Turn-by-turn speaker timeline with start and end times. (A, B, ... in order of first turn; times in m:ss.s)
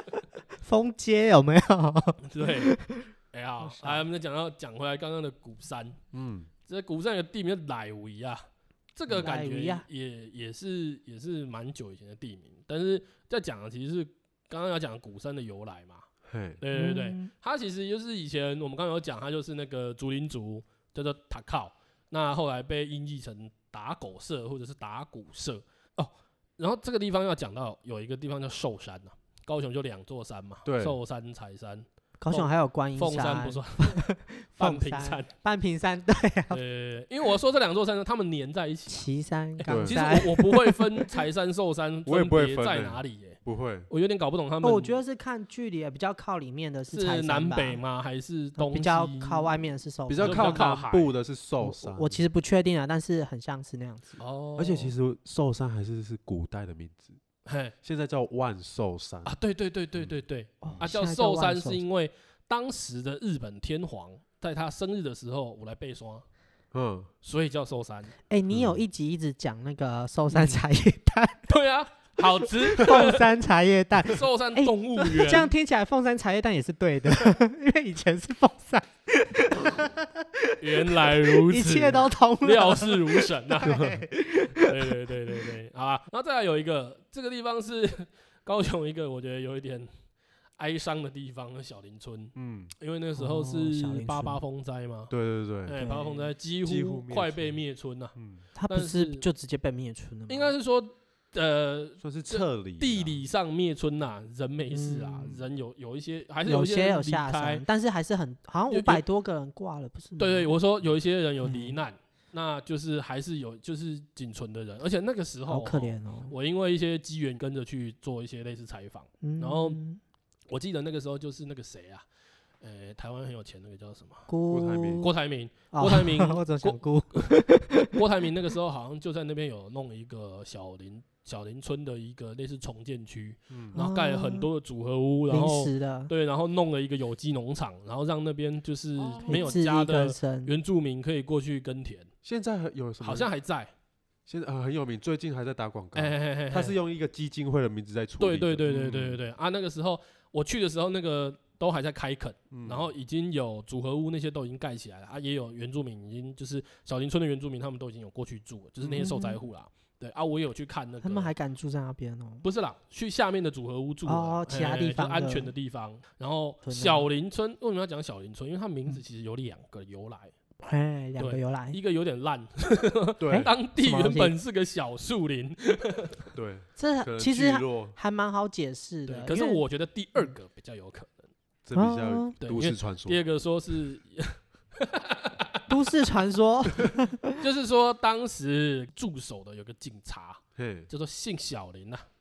0:00.6-0:03.1 A
0:02.2-0:02.8 B
0:03.3-0:06.0 B
0:03.6-0:04.0 A
0:06.1-0:06.5 C
0:06.7-0:16.1 B
0:09.1-0:09.8 A
0:16.3-0:16.6 C
0:16.6-0:34.0 B
0:16.7-0:17.3 A
0:30.6-0:31.0 C
0:32.2-0:36.6 A
0:34.6-0:35.3 B
0:36.5-0:45.0 B
0:38.9-0:41.2 A
0:39.7-0:40.0 C
0:42.0-0:43.9 C
0:44.6-0:47.8 A
0:46.9-0:49.6 B
0:48.6-0:50.7 A
0:50.1-0:52.2 C
0:50.2-0:51.1 B
0:51.6-0:54.2 A
0:54.2-0:54.9 B
0:54.6-0:57.2 C
0:57.4-0:57.7 B
0:57.8-0:59.3 C
0:59.2-1:06.2 B
1:00.6-1:01.8 A
1:06.7-1:07.1 C
1:07.2-1:08.1 B
1:08.3-1:11.5 A
1:08.5-1:08.8 C
1:11.5-1:13.3 B
1:12.3-1:24.9 A
1:14.0-1:15.5 B
1:20.6-1:23.8 B
1:23.6-1:24.0 C
1:24.6-1:29.9 B
1:30.6-1:35.1 B
1:32.3-1:32.7 C
1:33.2-1:34.4 A
1:35.1-1:35.8 C
1:35.6-1:38.1 B
1:35.7-1:36.3 A
1:36.6-1:37.6 C
1:38.2-1:38.4 C
1:38.6-1:40.5 A
1:38.7-1:39.2 B
1:40.3-1:47.6 B
1:42.0-1:43.2 C
1:44.7-1:45.3 A
1:46.4-1:50.5 A
1:48.7-1:49.0 B
1:50.2-1:59.8 B
1:51.4-1:51.8 A
1:55.5-1:56.3 A
1:59.2-2:00.0 A
2:00.5-2:02.0 B
2:02.6-2:04.3 B
2:04.3-2:05.1 A
2:04.5-2:05.1 C
2:05.0-2:22.1 B
2:05.7-2:07.9 A
2:13.5-2:13.7 C
2:13.7-2:14.5 A
2:15.3-2:16.1 A
2:19.0-2:19.6 C
2:19.3-2:20.5 A
2:22.2-2:23.3 C
2:23.0-2:23.7 B
2:24.3-2:29.2 C
2:26.0-2:26.8 B
2:28.2-2:41.3 B
2:32.5-2:32.9 C
2:38.8-2:39.1 C
2:39.0-2:39.4 A
2:41.0-2:42.4 A
2:42.4-2:50.3 B
2:44.0-2:45.5 A
2:46.6-2:47.1 A
2:50.6-2:51.8 A
2:51.2-2:56.3 B
2:53.2-2:53.5 C
2:53.3-2:54.3 A
2:56.3-2:58.0 C
2:56.8-2:59.6 A
2:59.1-3:01.3 B
3:01.6-3:03.2 C
3:01.7-3:02.3 A
3:02.4-3:05.6 B
3:05.7-3:07.4 A
3:07.4-3:12.0 B
3:10.6-3:10.9 C